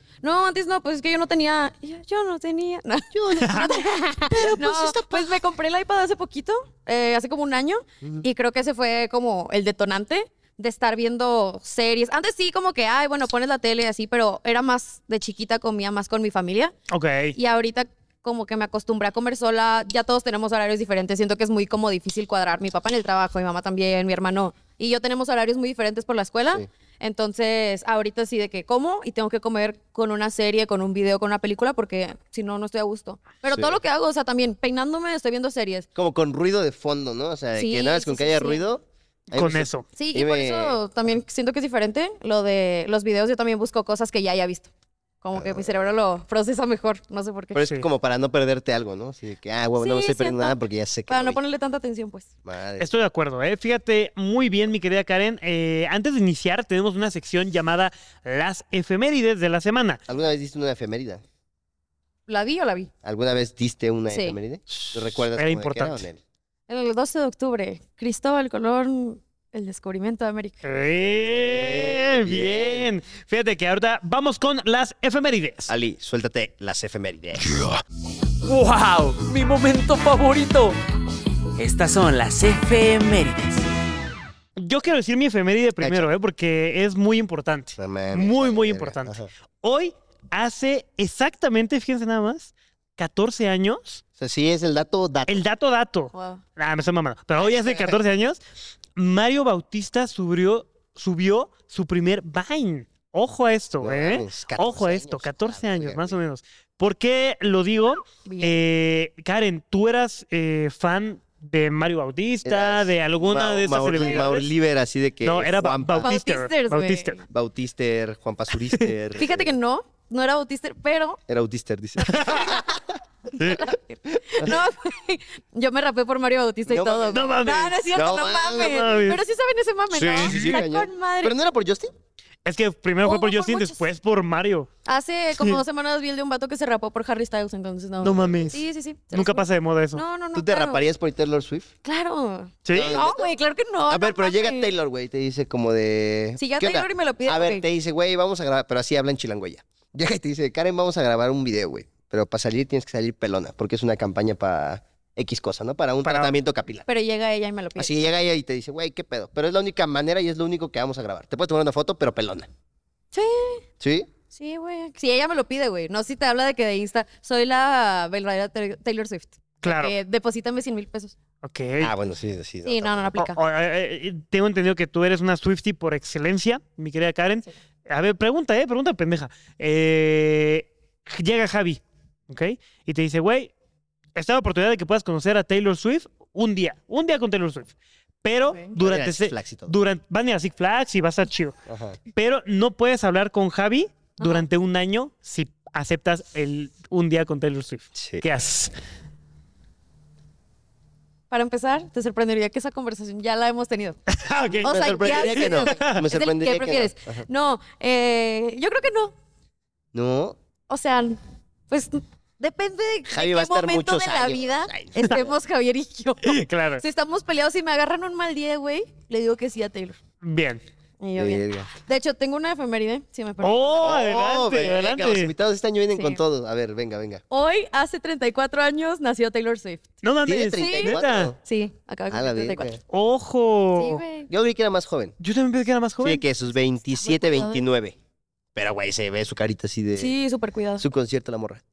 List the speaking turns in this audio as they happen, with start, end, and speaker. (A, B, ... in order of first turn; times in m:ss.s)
0:00.2-0:16.7 A
0:03.1-0:05.4 B
0:03.4-0:03.8 C
0:16.9-0:17.4 C
0:17.3-0:35.9 A
0:33.5-0:33.8 B
0:35.9-0:40.8 B
0:37.6-0:38.6 A
0:39.3-0:39.8 C
0:40.0-0:44.7 A
0:45.2-0:47.6 A
0:45.3-0:45.9 B
0:47.5-0:51.4 B
0:49.8-0:50.6 A
0:51.1-0:52.3 A
0:52.4-0:52.9 B
0:52.8-1:00.0 C
1:00.1-1:01.2 B
1:02.3-1:02.9 A
1:03.0-1:06.2 B
1:04.1-1:04.4 A
1:04.7-1:06.0 C
1:06.7-1:10.6 A
1:10.6-1:15.7 C
1:11.3-1:12.9 B
1:15.7-1:17.7 B
1:18.4-1:20.8 D
1:21.6-1:23.7 D
1:24.6-1:34.0 C
1:25.8-1:26.1 B
1:27.8-1:29.3 B
1:34.2-1:35.4 B
1:35.3-1:38.4 C
1:36.1-1:36.4 A
1:37.4-1:38.0 B
1:39.0-1:54.5 C
1:43.8-1:46.2 B
1:48.2-1:48.5 A
1:52.4-1:56.1 B
1:54.0-1:54.2 A
1:55.2-1:57.2 C
1:56.0-1:57.2 A
1:57.3-1:59.5 B
1:59.1-2:01.2 A
2:01.3-2:02.6 B
2:02.0-2:02.6 C
2:02.1-2:02.8 A
2:03.3-2:11.3 A
2:03.4-2:03.6 C
2:06.7-2:07.4 B
2:07.1-2:07.9 C
2:07.9-2:08.9 B
2:08.5-2:09.2 C
2:09.9-2:11.9 B
2:10.2-2:10.6 C
2:12.4-2:14.7 C
2:13.0-2:13.8 A
2:14.8-2:20.8 A
2:18.0-2:20.0 C
2:20.3-2:21.7 B
2:21.8-2:24.7 A
2:22.6-2:22.9 C
2:22.7-2:23.3 B
2:23.9-2:36.8 B
2:26.4-2:27.6 A
2:36.0-2:36.3 C
2:36.9-2:38.0 A
2:37.8-2:42.5 B
2:43.1-2:43.6 A
2:43.8-2:44.1 B
2:44.3-2:51.1 A
2:49.6-2:49.9 C
2:51.4-2:51.9 C
2:51.8-2:53.1 B
2:52.6-2:53.4 A
2:53.2-3:03.5 C
3:04.1-3:11.5 C
3:08.4-3:08.7 A
3:08.8-3:09.7 B
3:11.6-3:12.0 B
3:12.1-3:18.7 C
3:14.2-3:14.4 A
3:18.0-3:18.2 B
3:21.3-3:24.0 A
3:24.1-3:26.0 C
3:24.6-3:27.2 B
3:24.6-3:29.1 A
3:29.9-3:30.4 B
3:30.7-3:40.0 A
3:33.1-3:35.3 B
3:36.2-3:36.8 C
3:40.2-3:40.6 C
3:41.0-3:43.9 A
3:41.2-3:41.7 B
3:43.4-3:45.3 C
3:43.8-3:47.2 B
3:47.3-3:49.8 A
3:50.0-3:51.3 C
3:50.2-3:51.4 B
3:50.5-3:52.7 A
3:52.1-3:52.8 B
3:52.9-3:54.0 C
3:53.8-3:54.3 A
3:54.3-3:55.2 B
3:55.2-3:56.2 C
3:56.0-3:58.0 B
3:57.0-3:57.6 A
3:58.5-4:00.1 B
4:00.0-4:00.8 A
4:00.8-4:01.6 B